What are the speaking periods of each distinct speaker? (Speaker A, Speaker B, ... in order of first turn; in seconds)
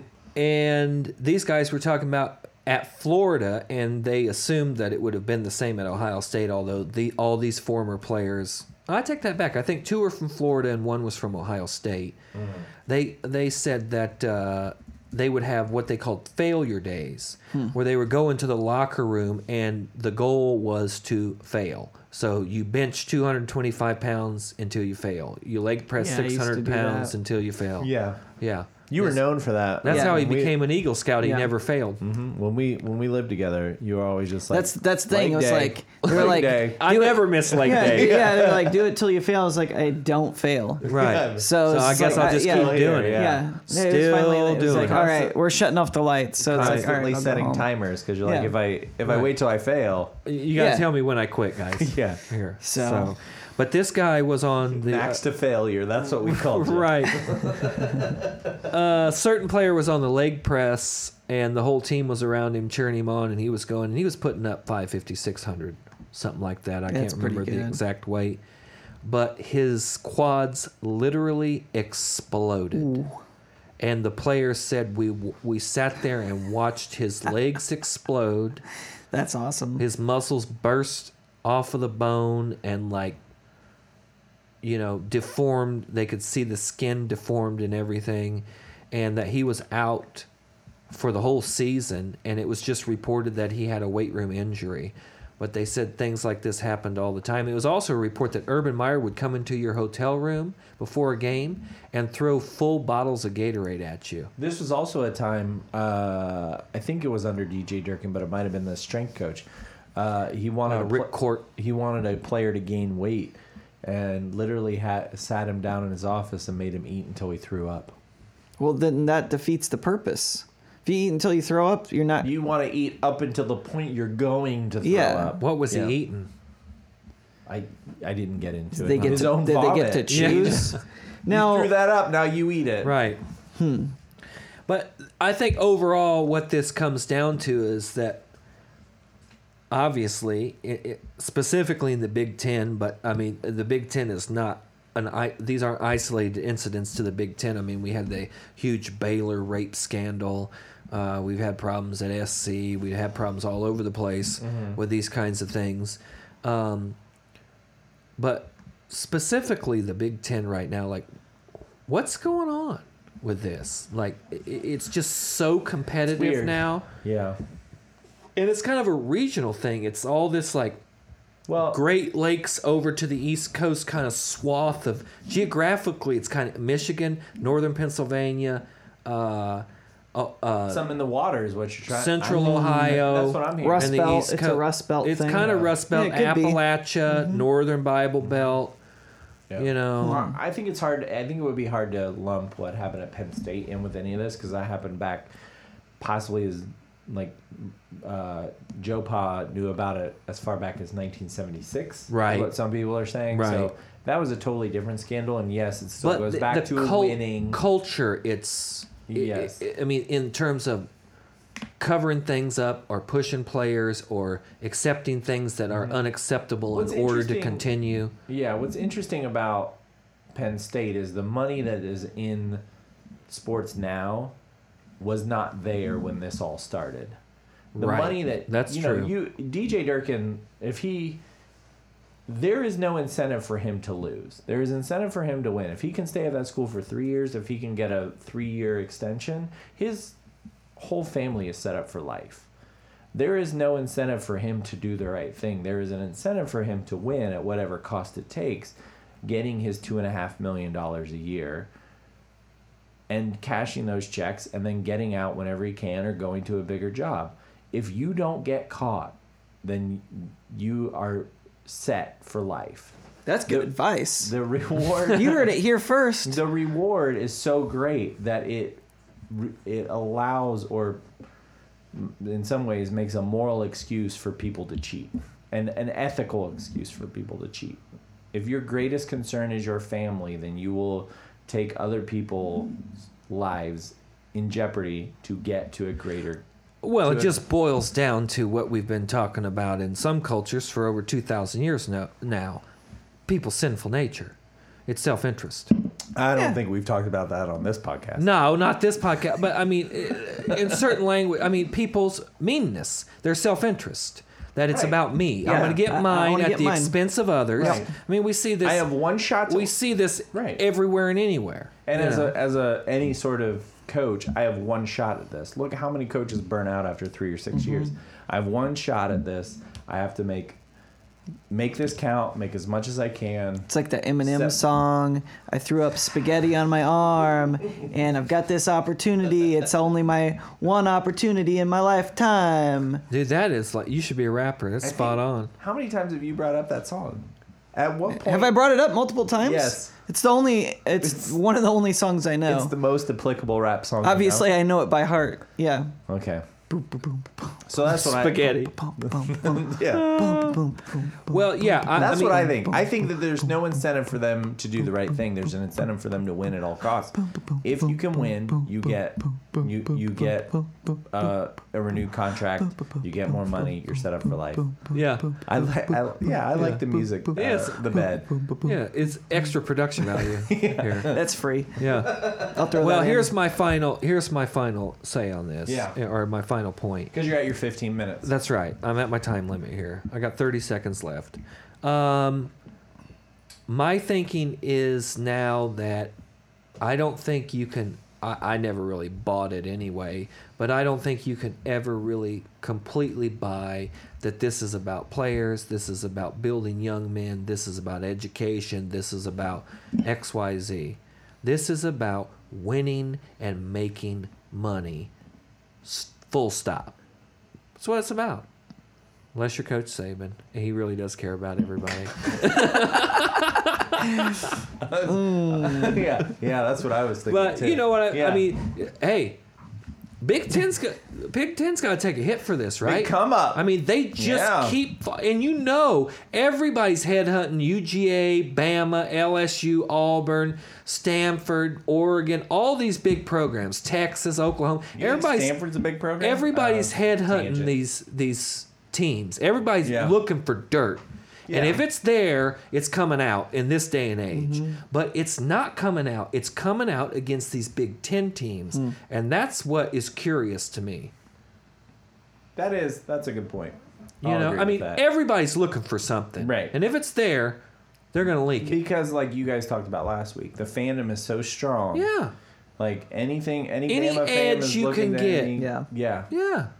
Speaker A: 0.3-12.2, 12.9-29.2, 29.8-32.0, 36.0-38.4, 40.8-45.2, 46.5-47.0, 49.1-49.3, 50.2-55.2, 56.2-68.4, 69.0-73.0, 73.8-78.6, 79.8-83.2, 84.6-90.3, 90.9-104.3, 110.7-111.5, 125.4-126.3, 129.0-129.4, 130.1-130.8, 132.8-133.2, 134.7-138.2, 139.7-157.0, 158.2-161.1, 161.9-166.9, 168.4-170.8, 171.7-180.9, 181.9-188.8, 189.6-190.3, 202.1-202.5, 203.3-203.7, 206.0-210.9, 211.8-218.1, 227.8-229.1, 286.8-292.6, 293.3-294.4, 294.9-295.7, 298.2-308.9, 309.4-312.3, 333.1-335.5, 348.0-348.8, 351.2-352.6, 364.9-365.4, 367.4-368.1, 368.6-371.2, 371.8-377.1, 378.2-382.5, 383.7-386.1, 386.8-405.1, 405.8-406.9, 407.8-408.5, 409.3-414.6, 417.3-419.4, 420.2-435.6, 436.2-451.1, 454.2-457.6, 458.1-458.8, 461.9-462.3, 463.9-465.6, 466.3-466.7
Speaker B: 26.0-27.1, 29.9-30.2, 31.2-31.5, 34.5-47.7, 48.2-48.5, 50.5-50.9, 52.6-53.1, 66.9-67.8, 72.7-73.2, 79.1-79.8, 118.6-122.3, 124.8-125.4, 128.8-131.7, 133.6-133.9, 182.4-182.8, 183.6-187.4, 190.0-190.4, 263.3-264.3, 265.1-266.4, 305.4-306.9, 307.6-307.9, 323.7-333.0, 338.1-342.7, 344.0-345.9, 346.7-347.2, 348.8-351.2, 371.1-373.3, 415.1-416.1, 444.3-444.8, 465.6-465.9
Speaker C: 27.8-28.2, 28.9-30.6, 32.0-36.9, 37.5-38.9, 40.8-43.5, 44.5-45.4, 46.5-50.2, 51.8-52.2, 54.8-58.3, 104.4-118.0, 122.2-126.0, 127.5-132.9, 154.4-154.8, 166.1-167.4, 171.5-171.8, 180.7-184.0, 185.3-185.8, 189.5-195.3, 196.0-207.6, 209.1-209.6, 215.7-216.0, 216.7-217.7, 218.3-219.8, 220.3-222.6, 223.3-224.3, 225.0-227.2, 227.8-231.2, 232.3-240.2, 240.8-242.5, 243.1-251.7, 253.1-262.9, 263.5-265.5, 266.2-271.0, 271.9-277.8, 278.3-286.4, 287.0-287.4, 296.1-298.3, 304.7-305.8, 307.6-307.9, 308.6-309.7, 310.3-310.6, 311.9-320.6, 321.5-323.7, 324.2-324.6, 334.8-338.6, 339.4-339.9, 341.0-341.4, 342.5-344.5, 346.1-346.4, 347.7-350.6, 351.9-364.8, 365.4-368.6, 370.3-371.2, 372.2-372.5, 375.7-376.0, 377.1-378.3, 414.8-418.5, 422.8-423.6, 424.2-424.8, 434.9-437.7, 439.8-440.2, 441.5-441.8, 452.6-455.0, 456.4-456.8, 458.6-462.1, 462.8-466.3